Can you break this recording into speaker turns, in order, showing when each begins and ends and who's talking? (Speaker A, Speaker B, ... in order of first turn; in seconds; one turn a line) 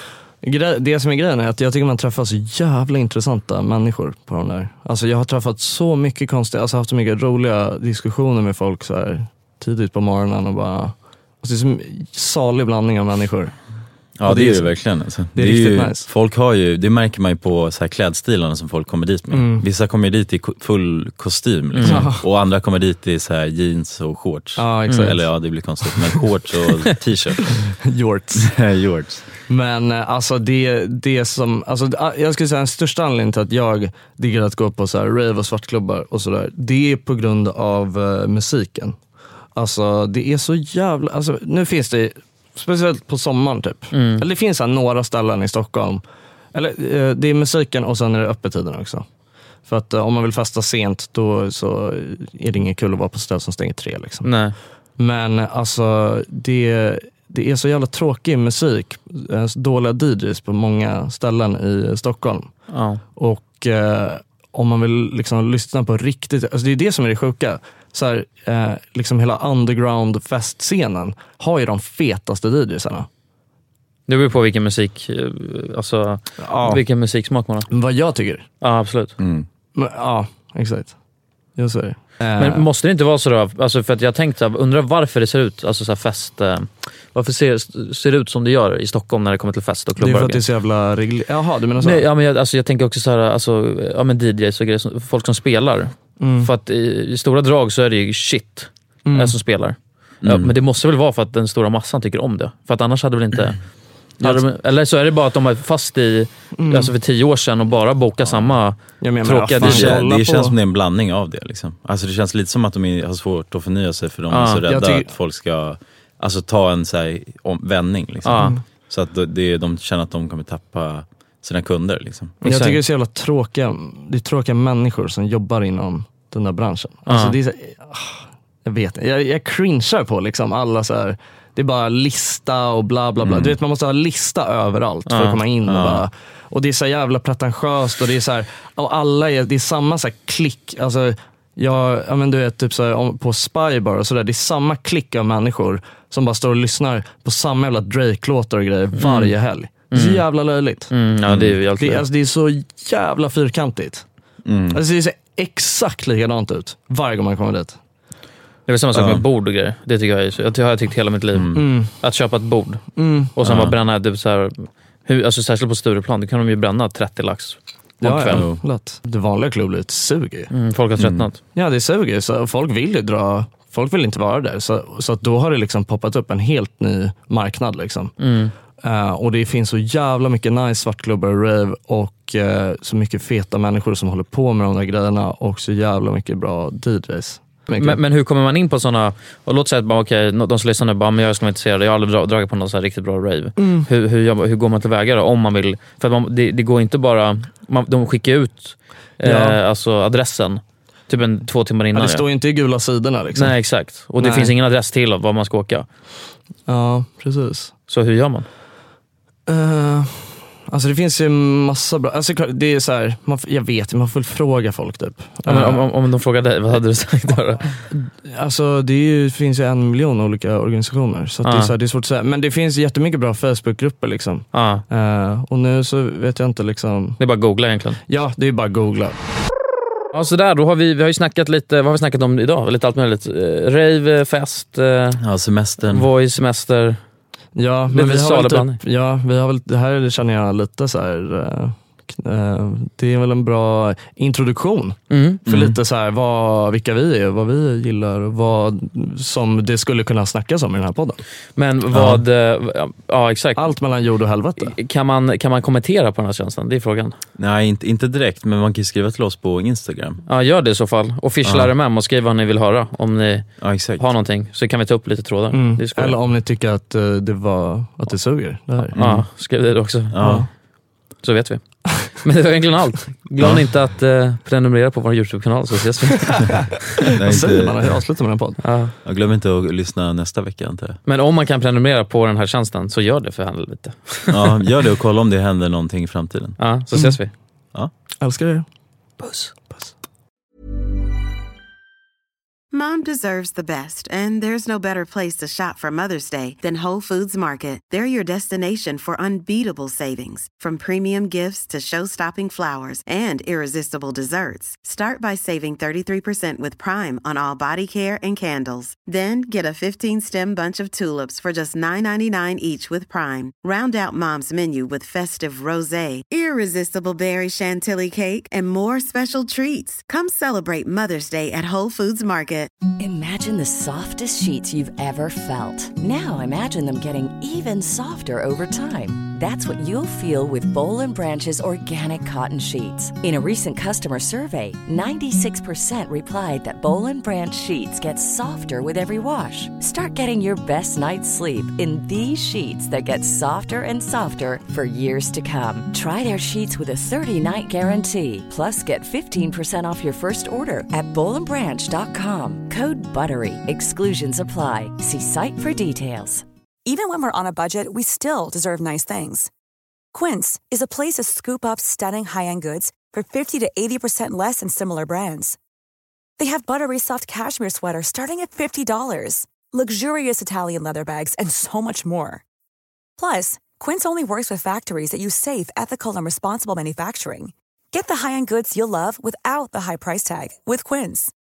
Speaker A: 0.4-13.5
Speaker B: 14.2-27.7
Speaker A: 14.2-14.7
Speaker A: 15.3-16.1
Speaker A: 19.3-19.6
Speaker C: 21.8-22.1
Speaker A: 21.8-22.2
Speaker A: 24.6-25.2
Speaker A: 27.8-28.5
Speaker B: 28.4-29.3
Speaker A: 29.5-39.0
Speaker A: 39.5-46.0
Speaker C: 43.9-44.2
Speaker A: 46.5-49.1
Speaker A: 49.7-54.3
Speaker C: 54.2-54.5
Speaker A: 55.0-62.5
Speaker C: 62.7-63.0
Speaker A: 63.2-73.1
Speaker C: 74.1-77.7
Speaker A: 76.4-76.8
Speaker A: 77.7-78.5
Speaker C: 78.6-79.2
Speaker B: 79.2-79.5
Speaker A: 79.7-81.0
Speaker A: 81.6-82.7
Speaker C: 82.4-90.4
Speaker A: 90.0-92.1
Speaker C: 91.8-103.6
Speaker A: 96.2-96.5
Speaker A: 99.1-99.4
Speaker B: 100.2-100.5
Speaker C: 104.2-110.0
Speaker A: 106.5-106.9
Speaker B: 108.2-108.5
Speaker A: 109.0-110.6
Speaker B: 109.6-122.3
Speaker C: 114.3-114.6
Speaker A: 114.7-115.1
Speaker C: 118.2-118.5
Speaker A: 118.3-118.6
Speaker A: 122.4-150.9
Speaker C: 122.4-122.8
Speaker C: 127.1-127.4
Speaker B: 133.2-133.6
Speaker C: 135.1-135.4
Speaker B: 135.7-136.0
Speaker C: 149.0-149.3
Speaker C: 149.9-150.2
Speaker C: 150.9-152.1
Speaker B: 151.3-151.6
Speaker A: 151.8-154.1
Speaker B: 154.4-154.8
Speaker A: 154.7-157.8
Speaker C: 158.7-162.8
Speaker B: 158.9-159.2
Speaker B: 161.3-161.6
Speaker A: 161.5-161.9
Speaker A: 162.9-163.3
Speaker C: 163.4-168.5
Speaker B: 163.4-163.8
Speaker A: 168.0-170.5
Speaker B: 168.3-168.6
Speaker C: 170.5-171.4
Speaker B: 171.0-171.3
Speaker A: 171.6-178.1
Speaker C: 178.2-178.5
Speaker A: 178.8-188.0
Speaker C: 187.8-202.3
Speaker A: 193.6-193.9
Speaker A: 199.2-199.6
Speaker A: 201.9-203.6
Speaker C: 203.3-205.9
Speaker A: 204.2-204.5
Speaker A: 206.7-207.7
Speaker C: 207.9-208.5
Speaker A: 209.5-215.9
Speaker C: 215.4-217.8
Speaker A: 217.9-227.2
Speaker C: 221.4-221.7
Speaker C: 224.5-224.8
Speaker C: 227.2-228.0
Speaker A: 228.1-229.2
Speaker C: 230.1-235.2
Speaker B: 235.2-236.1
Speaker C: 235.8-237.0
Speaker A: 237.6-251.2
Speaker C: 237.9-238.8
Speaker C: 245.1-245.4
Speaker B: 245.5-245.8
Speaker C: 251.6-253.7
Speaker A: 253.6-254.8
Speaker C: 254.6-257.2
Speaker B: 257.4-260.2
Speaker C: 260.3-266.2
Speaker B: 261.4-261.7
Speaker B: 263.6-264.1
Speaker A: 265.5-269.0
Speaker C: 268.9-270.2
Speaker B: 268.9-269.3
Speaker B: 270.1-270.5
Speaker A: 270.2-270.5
Speaker C: 271.2-276.6
Speaker B: 277.1-278.0
Speaker A: 277.2-278.6
Speaker C: 278.6-278.9
Speaker B: 279.1-281.0
Speaker C: 281.1-284.4
Speaker B: 284.3-286.6
Speaker C: 286.6-287.3
Speaker A: 288.2-288.7
Speaker C: 289.2-289.5
Speaker D: 292.7-322.7
Speaker E: 323.0-356.4
Speaker F: 356.9-359.5
Speaker F: 360.1-365.6
Speaker F: 366.4-372.4
Speaker F: 373.2-381.3